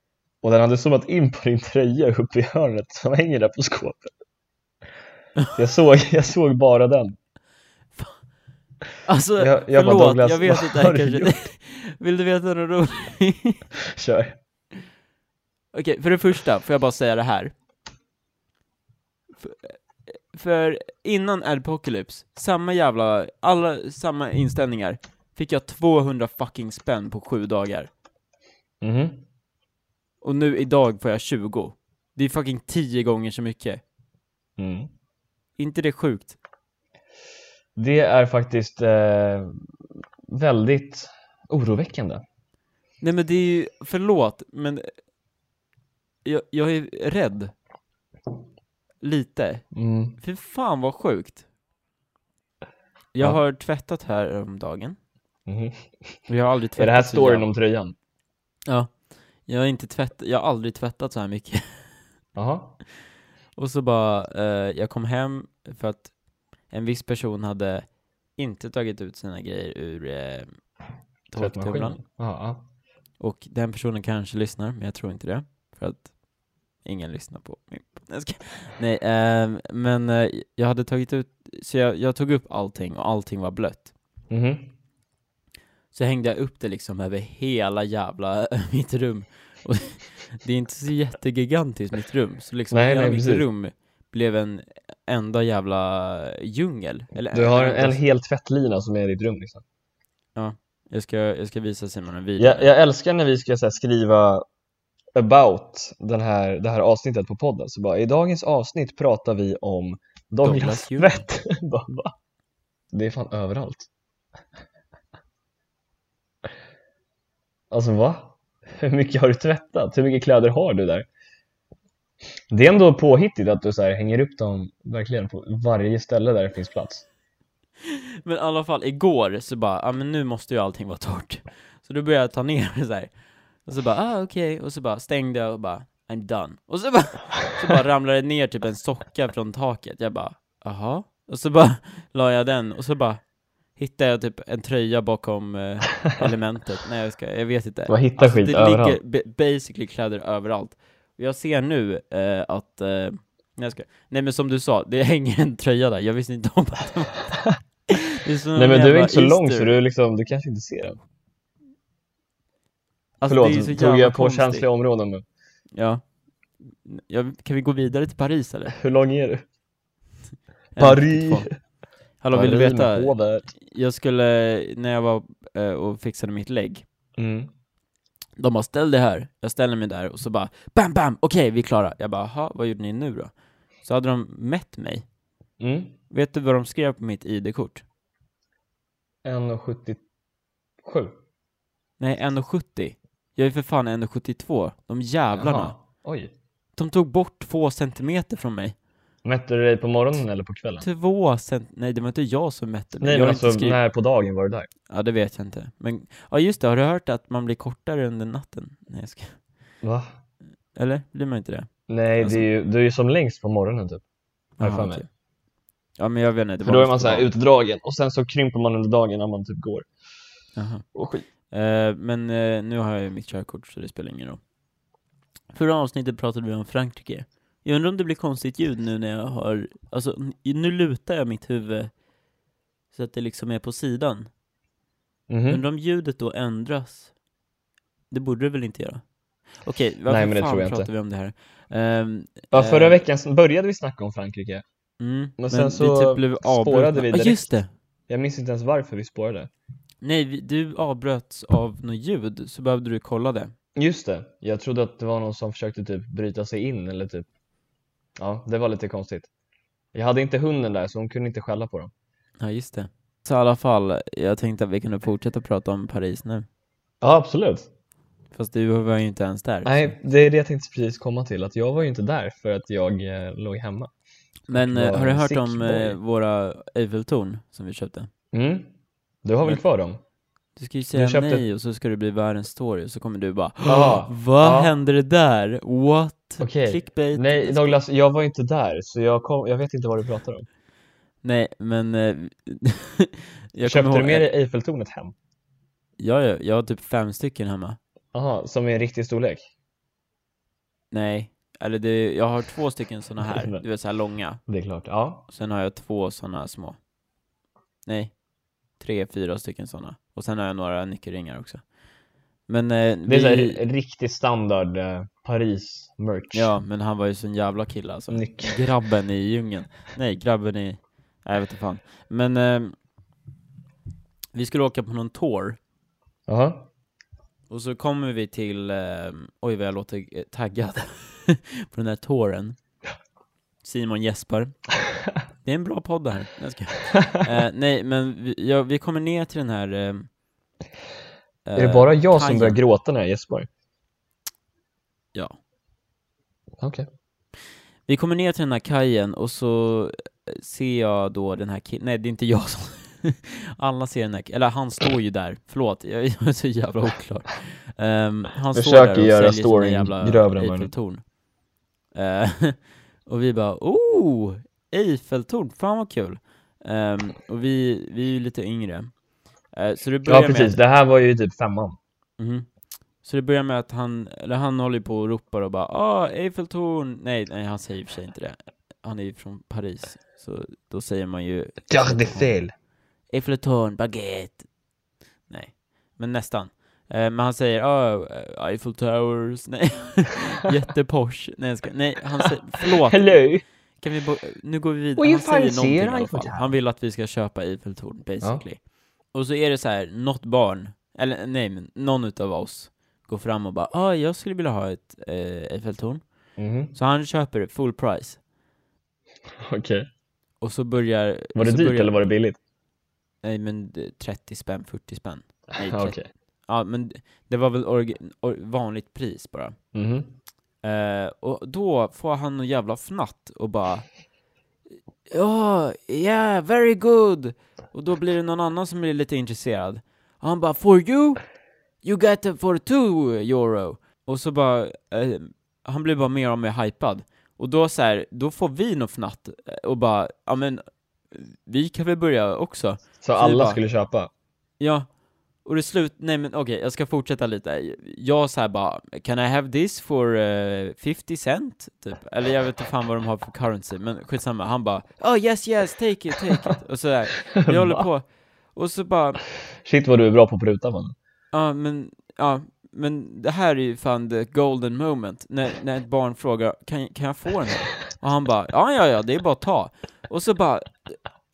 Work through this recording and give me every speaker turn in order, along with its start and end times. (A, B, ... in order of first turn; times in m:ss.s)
0:00.4-0:04.1 A
0:05.6-0:07.2 A
0:09.1-0:13.6 B
0:09.4-0:11.4 A
0:13.8-0:14.4 A
0:15.7-0:17.5 B
0:19.4-0:27.9 B
0:28.8-0:29.2 A
0:30.2-0:33.8 B
0:34.6-0:34.9 A
0:35.6-0:36.4 B
0:37.8-0:39.6 A
0:40.3-0:42.2 A
0:43.0-0:44.9 B
0:46.2-0:47.5 B
0:49.0-0:49.6 B
0:49.7-0:50.2 A
0:50.2-0:51.4 B
0:53.1-0:55.0 B
0:55.5-0:56.2 A
0:56.3-0:57.5 B
0:56.8-0:58.0 A
0:58.7-0:58.9 B
0:59.5-1:01.6 B
1:02.4-1:02.8 A
1:03.6-1:06.1 B
1:06.7-1:07.8 B
1:08.4-1:10.6 B
1:11.3-1:12.0 B
1:11.4-1:12.6 A
1:13.2-1:16.1 B
1:16.8-1:23.9 B
1:24.3-1:24.7 A
1:25.9-1:38.0 B
1:32.7-1:33.4 A
1:37.3-1:39.6 A
1:40.4-1:42.7 B
1:42.4-1:44.4 A
1:45.2-1:52.1 A
1:50.4-1:51.2 B
1:52.9-1:53.9 A
1:57.7-2:01.1 A
2:02.5-2:07.0 A
2:07.9-2:13.1 B
2:13.6-2:23.2 B
2:23.8-2:37.4 B
2:27.9-2:29.0 A
2:37.9-2:39.8 B
2:38.6-2:41.0 A
2:43.2-2:44.6 B
2:43.3-2:45.2 A
2:45.8-2:46.0 B
2:46.8-2:48.8 B
2:48.7-2:49.4 A
2:50.8-2:51.5 B
2:50.8-2:51.5 A
2:52.2-2:56.8 B
2:52.3-2:53.5 A
2:57.2-2:57.5 A
2:58.4-3:03.3 B
3:03.8-3:05.0 B
3:05.6-3:05.9 A
3:06.1-3:07.8 B
3:09.2-3:10.0 A
3:10.8-3:11.2 A
3:12.0-3:15.7 B
3:15.4-3:16.3 A
3:16.8-3:18.8 B
3:19.2-3:20.8 A
3:20.8-3:23.8 B
3:23.0-3:24.7 A
3:24.9-3:29.3 B
3:29.8-3:30.1 A
3:30.8-3:32.5 B
3:31.9-3:34.0 A
3:34.6-3:35.1 B
3:34.6-3:35.0 A
3:36.0-3:37.3 B
3:36.6-3:39.9 A
3:40.6-3:40.8 B
3:40.9-3:41.2 A
3:41.5-3:44.4 B
3:45.5-3:51.9 B
3:52.9-3:54.3 B
3:55.3-3:55.6 A
3:55.5-3:57.1 B
3:58.1-3:59.0 B
3:59.6-4:03.0 B
4:00.1-4:00.9 A
4:02.5-4:04.6 A
4:05.0-4:07.7 B
4:05.4-4:07.5 A
4:08.1-4:09.5 A
4:10.0-4:13.5 B
4:13.8-4:17.3 A
4:18.2-4:19.3 A
4:19.9-4:21.9 A
4:22.4-4:26.5 B
4:27.0-4:27.7 A
4:28.3-4:30.0 B
4:29.6-4:33.9 A
4:34.5-4:36.0 A
4:34.5-4:38.1 B
4:38.3-4:38.7 A
4:39.2-4:40.0 A
4:40.6-4:47.8 B
4:40.9-4:41.4 A
4:43.7-4:44.7 A
4:46.4-4:50.5 A
4:51.2-4:54.3 B
4:53.6-4:55.2 A
4:56.0-4:57.8 B
4:58.1-4:59.5 A
5:00.9-5:04.4 B
5:03.2-5:03.6 A
5:04.5-5:05.2 A
5:05.3-5:06.8 B
5:07.9-5:08.1 B
5:08.8-5:11.6 B
5:12.5-5:13.6 B
5:13.1-5:16.5 A
5:16.3-5:22.8 B
5:18.1-5:18.6 A
5:24.3-5:25.6 B
5:26.3-5:26.7 A
5:27.5-5:32.6 B
5:33.6-5:34.6 B
5:35.4-5:40.1 B
5:41.5-5:42.6 B
5:41.6-5:43.5 A
5:46.6-5:46.9 A
5:47.9-6:01.0 B
5:58.5-6:00.7 A
6:01.9-6:08.9 B
6:09.5-6:10.6 B
6:10.1-6:11.8 A
6:12.2-6:12.5 B
6:13.0-6:22.4 B
6:21.7-6:22.5 A
6:23.1-6:24.5 B
6:25.3-6:33.2 B
6:32.6-6:33.4 A
6:33.8-6:38.6 B
6:35.0-6:36.5 A
6:39.1-6:46.0 B
6:46.4-6:46.7 A
6:46.7-6:48.2 B
6:49.4-6:49.9 A
6:50.4-6:52.0 B
6:51.4-6:52.4 A
6:53.2-6:56.0 B
6:55.6-6:56.1 A
6:56.5-6:59.6 B
6:59.7-7:00.1 A
7:00.6-7:03.9 B
7:05.1-7:11.2 B
7:11.8-7:23.6 B
7:23.0-7:24.1 A
7:24.6-7:24.9 B
7:25.4-7:39.2 B
7:37.4-7:37.9 A
7:39.6-7:41.0 A
7:41.3-7:51.0 B